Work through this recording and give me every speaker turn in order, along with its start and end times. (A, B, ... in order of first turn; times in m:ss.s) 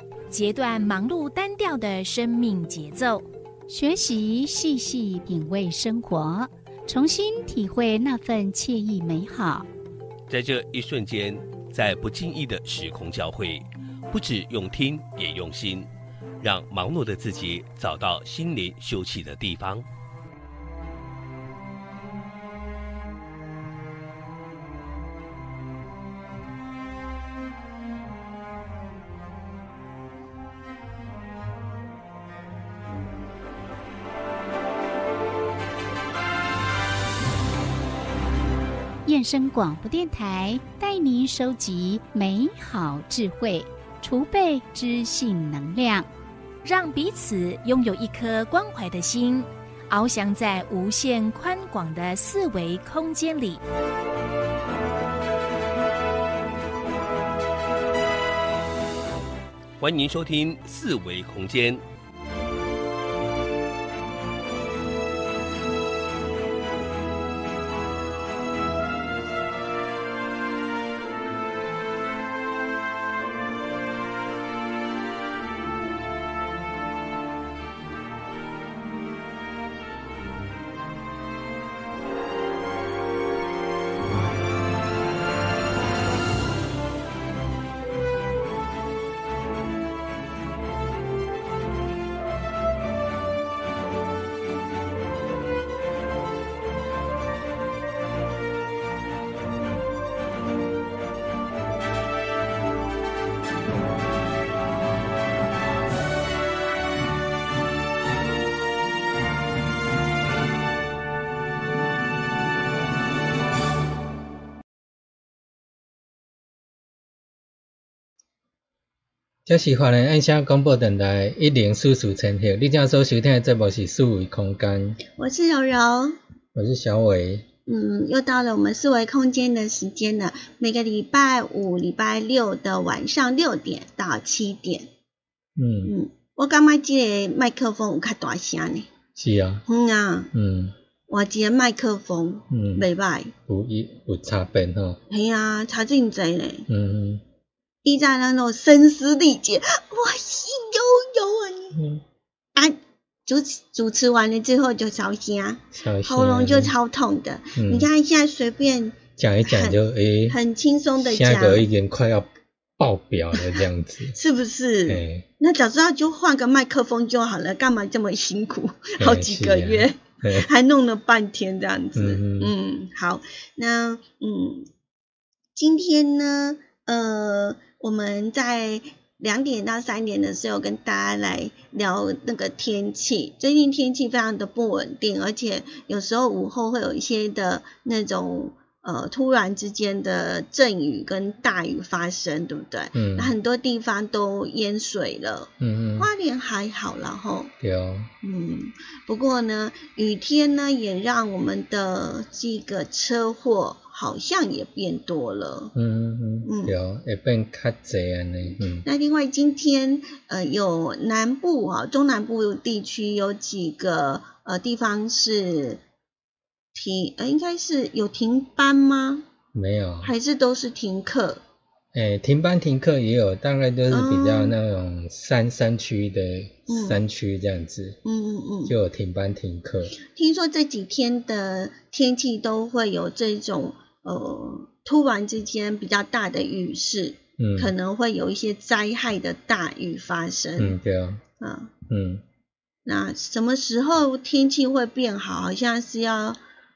0:00.3-0:03.2 A
0:03.7-0:09.7 B
0:10.3-0:15.9 C
0:16.4-0:19.9 C
0:39.0-0:46.1 B
0:46.6-0:53.6 A
0:59.8-1:01.8 C
1:59.5-2:05.0 D
2:05.2-2:06.2 E
2:06.6-2:07.5 D
2:07.7-2:14.9 E
2:15.6-2:15.9 D
2:15.8-2:18.9 E
2:19.2-2:19.6 D
2:19.7-2:20.3 E
2:20.3-2:20.8 D
2:21.1-2:23.3 E
2:22.5-2:22.9 D
2:23.5-2:25.0 D
2:25.1-2:26.7 E
2:26.7-2:27.2 D
2:27.8-2:31.8 E
2:31.8-2:32.0 D
2:32.6-2:39.8 E
2:35.7-2:36.7 D
2:37.6-2:37.9 D
2:39.2-2:40.4 D
2:40.3-2:41.7 E
2:41.0-2:44.2 D
2:44.1-2:54.7 E
2:44.9-2:45.3 D
2:49.0-2:50.5 D
2:52.0-2:52.6 D
2:55.6-3:17.5 E
3:13.0-3:13.4 D
3:15.6-3:16.1 D
3:17.6-3:18.1 D
3:18.2-3:25.8 E
3:25.8-3:28.9 D
3:26.4-3:26.7 E
3:28.8-3:35.8 E
3:36.7-3:39.2 E
3:39.5-3:40.1 D
3:40.0-3:41.4 E
3:41.9-3:48.0 D
3:43.9-3:44.6 E
3:46.7-3:47.0 E
3:48.0-3:48.7 E
3:48.7-3:50.0 D
3:50.0-4:00.8 E
3:57.4-3:57.7 D
4:00.6-4:01.2 D
4:01.4-4:01.7 E
4:01.9-4:02.2 D
4:02.9-4:06.4 E